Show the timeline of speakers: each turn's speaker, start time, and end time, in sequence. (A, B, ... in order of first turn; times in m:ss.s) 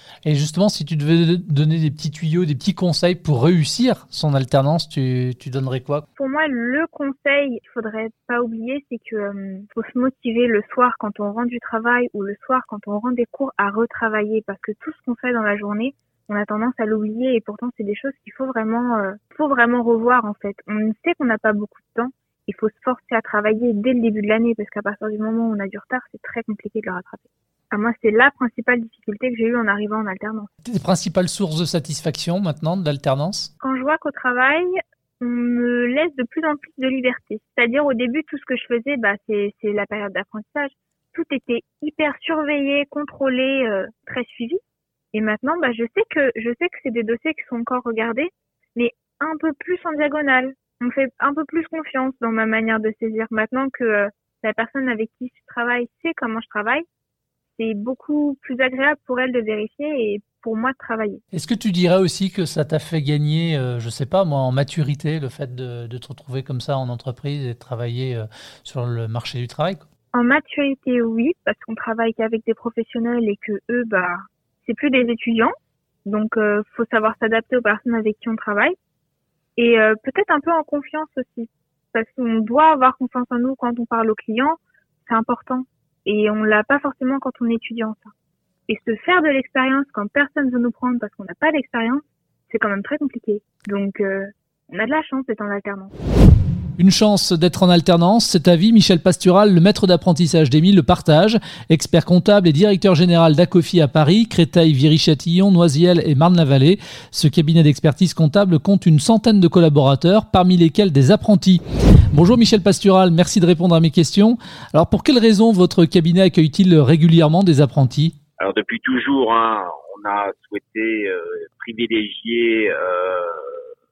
0:00.2-0:06.0 A
0:06.2-0:30.5 B
0:30.6-0:33.5 A
0:33.6-0:44.6 B
0:45.1-0:56.8 B
0:57.6-1:01.2 B
1:01.3-1:09.8 A
1:10.1-1:15.5 B
1:16.0-1:18.7 B
1:19.6-1:28.1 B
1:28.7-1:35.9 B
1:36.8-1:58.2 A
1:58.4-2:03.6 C